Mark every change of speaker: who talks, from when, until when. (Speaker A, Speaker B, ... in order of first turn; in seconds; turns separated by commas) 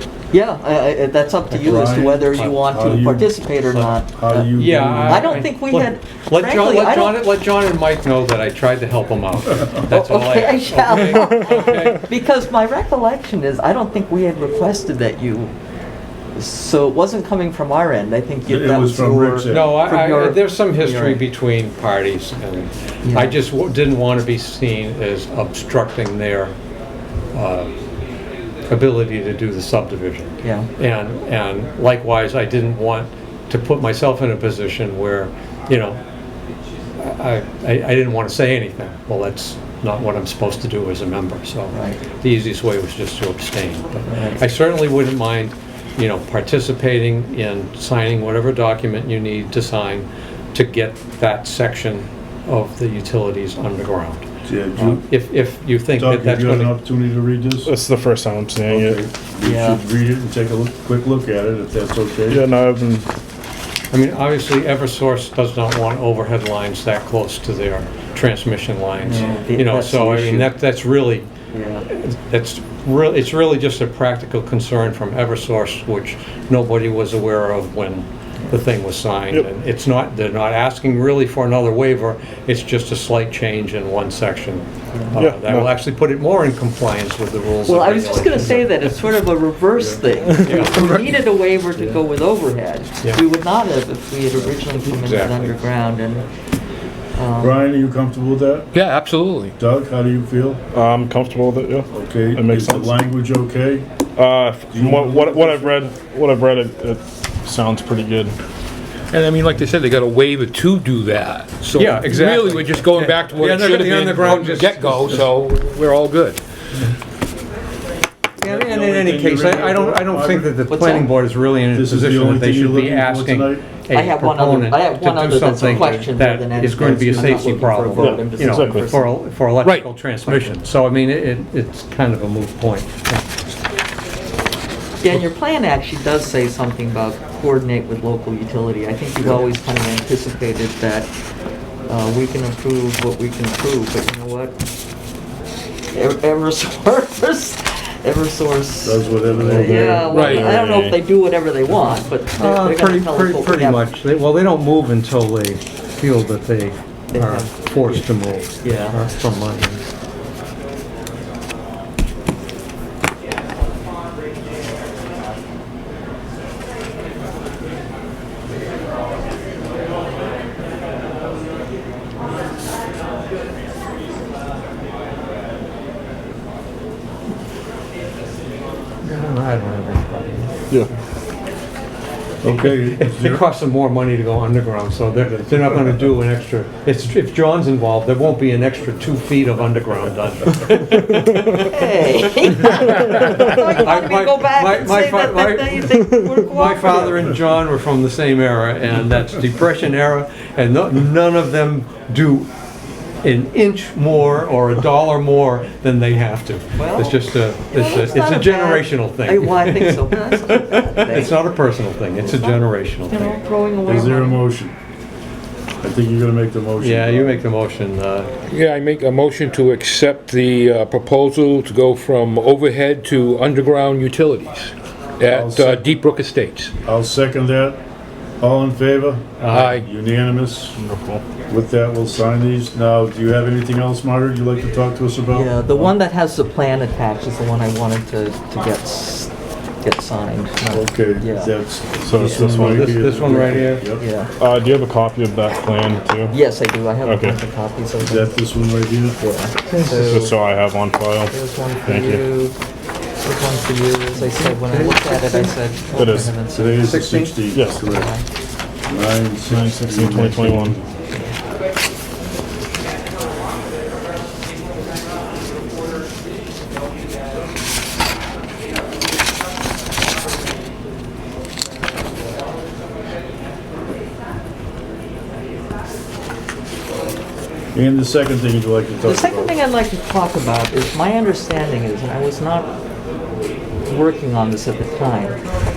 Speaker A: 0.3-7.2, Speaker B: 1.5-2.7, Speaker C: 1.6-3.3, Speaker B: 3.6-4.0, Speaker C: 4.1-5.4, Speaker B: 4.5-12.1, Speaker A: 9.9-15.5, Speaker A: 16.4-21.2, Speaker C: 18.5-19.8, Speaker B: 19.5-26.6, Speaker A: 23.1-23.4, Speaker B: 27.3-27.7, Speaker B: 28.7-36.0, Speaker A: 30.4-30.7, Speaker B: 37.0-54.2, Speaker A: 41.7-42.0, Speaker A: 44.1-44.4, Speaker C: 54.5-55.0, Speaker B: 54.8-56.8, Speaker C: 56.0-57.7, Speaker D: 57.7-59.0, Speaker C: 58.7-62.4, Speaker A: 59.4-59.8, Speaker D: 62.3-63.1, Speaker B: 63.9-71.3, Speaker A: 69.0-70.5, Speaker A: 71.5-71.8, Speaker B: 71.9-88.9, Speaker D: 85.2-85.7, Speaker A: 87.7-96.2, Speaker B: 90.3-91.0, Speaker E: 95.0-95.5, Speaker A: 97.2-97.7, Speaker C: 97.4-98.7, Speaker E: 98.7-99.5, Speaker C: 99.6-100.6, Speaker D: 100.7-103.0, Speaker C: 101.9-103.9, Speaker D: 104.2-108.3, Speaker C: 104.7-105.8, Speaker E: 109.1-116.4, Speaker B: 111.8-115.2, Speaker C: 118.4-120.5, Speaker B: 118.4-133.4, Speaker A: 120.7-121.1, Speaker C: 121.7-123.7, Speaker A: 123.9-129.1, Speaker D: 128.0-128.9, Speaker E: 129.6-130.5, Speaker A: 135.0-141.1, Speaker A: 141.9-144.6, Speaker A: 145.9-153.8, Speaker C: 148.8-150.1, Speaker D: 149.4-151.0, Speaker B: 149.7-150.1, Speaker E: 150.1-150.5, Speaker B: 152.4-159.8, Speaker A: 157.1-159.0, Speaker B: 179.0-181.0, Speaker C: 182.4-183.4, Speaker B: 182.5-202.5, Speaker C: 185.2-186.1, Speaker A: 191.5-197.3, Speaker B: 203.2-213.4, Speaker A: 206.8-211.4, Speaker A: 212.2-214.4, Speaker C: 213.9-214.7, Speaker C: 215.8-217.4, Speaker B: 216.8-218.3, Speaker E: 218.5-226.7, Speaker C: 225.3-225.8, Speaker C: 226.8-227.8, Speaker C: 228.4-230.8, Speaker E: 229.5-229.9, Speaker D: 230.8-231.2, Speaker C: 231.5-235.9, Speaker A: 235.3-239.3, Speaker A: 239.8-241.5, Speaker C: 240.7-244.1, Speaker D: 242.0-243.0, Speaker B: 242.3-243.8, Speaker A: 244.0-244.3, Speaker D: 244.4-246.4, Speaker A: 246.3-248.4, Speaker D: 247.0-247.4, Speaker C: 248.0-249.2, Speaker A: 249.2-250.3, Speaker B: 249.7-250.1, Speaker D: 249.9-251.3, Speaker A: 251.3-252.6, Speaker D: 251.8-252.2, Speaker A: 253.2-257.0, Speaker B: 254.1-255.6, Speaker D: 255.9-256.3, Speaker C: 256.5-258.1, Speaker B: 256.7-257.4, Speaker D: 257.5-257.8, Speaker A: 257.7-258.2, Speaker C: 258.9-261.0, Speaker D: 259.5-260.8, Speaker C: 277.7-279.6, Speaker A: 279.0-282.7, Speaker A: 283.9-285.4